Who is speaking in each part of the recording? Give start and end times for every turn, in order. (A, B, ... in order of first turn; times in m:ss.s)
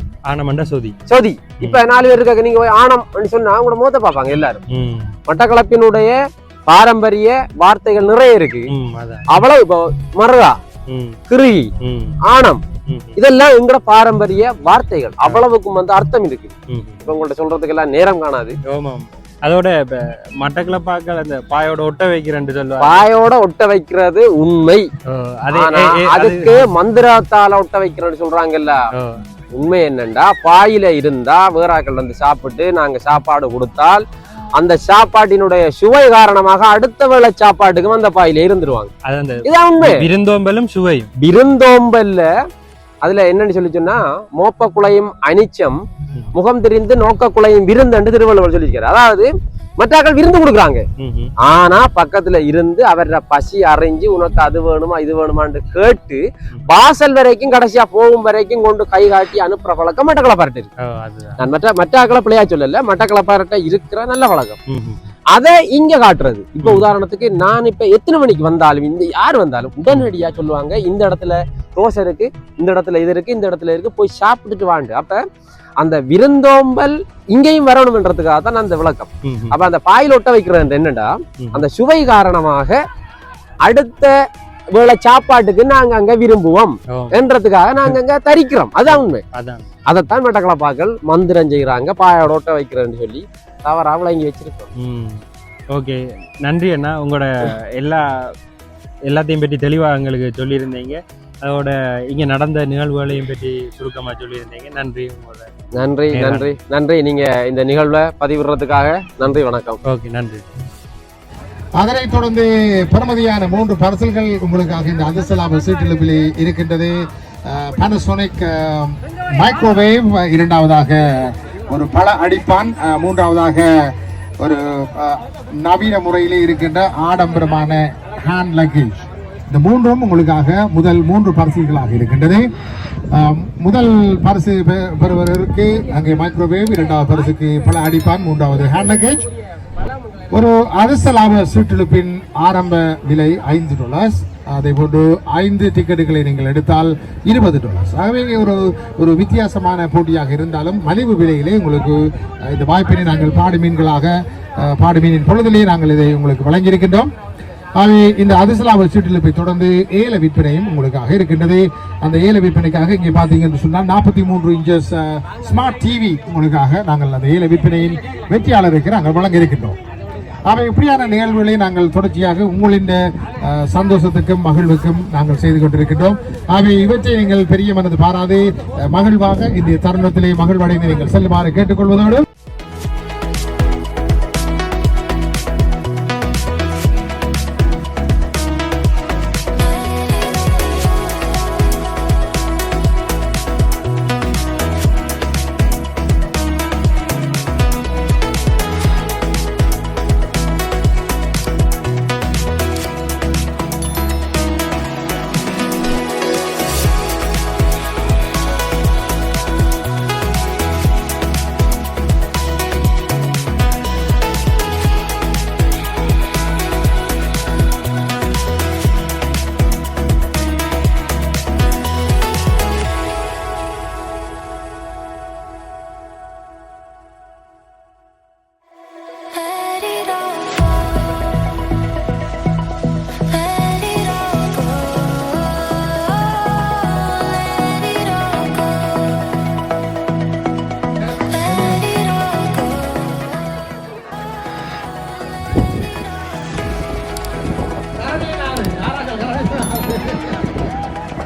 0:00.3-0:01.0 A
0:01.1-0:04.6 B
0:04.7-0:05.1 A
0:05.3-0:08.7 B
0:08.7-0:09.2 A
0:09.3-0:10.6 B
0:10.9-0:11.2 A
0:11.3-0:11.7 B
0:11.8-0:12.2 A
0:12.2-0:12.6 B
0:12.9-0:13.2 A
0:13.2-0:16.5 B
0:16.7-0:17.0 A
0:17.0-0:18.6 B
0:18.6-0:23.0 A
0:22.8-0:24.9 B
0:25.0-0:26.7 A
0:25.5-0:28.9 B
0:28.9-0:29.2 A
0:29.5-0:34.0 B
0:34.6-0:38.9 B
0:39.0-0:41.1 A
0:39.4-0:40.0 B
0:41.2-0:42.3 B
0:43.0-0:45.8 B
0:46.3-0:50.8 B
0:51.0-0:51.3 A
0:51.4-1:00.7 B
1:00.8-1:01.4 A
1:01.4-1:04.6 B
1:04.7-1:05.0 A
1:05.3-1:15.2 B
1:15.8-1:22.8 B
1:19.2-1:19.6 A
1:23.6-1:24.2 B
1:24.7-1:29.2 B
1:26.9-1:27.2 A
1:28.9-1:29.7 A
1:29.9-1:34.7 B
1:34.8-1:38.3 A
1:39.1-1:45.5 A
1:45.7-1:49.8 B
1:46.1-1:46.5 A
1:49.8-1:50.4 A
1:51.8-2:12.5 C
2:13.1-2:19.3 C
2:20.3-2:37.1 C
2:37.8-2:49.8 C
2:50.5-3:02.3 C
4:01.0-4:01.9 C
4:08.0-4:10.6 C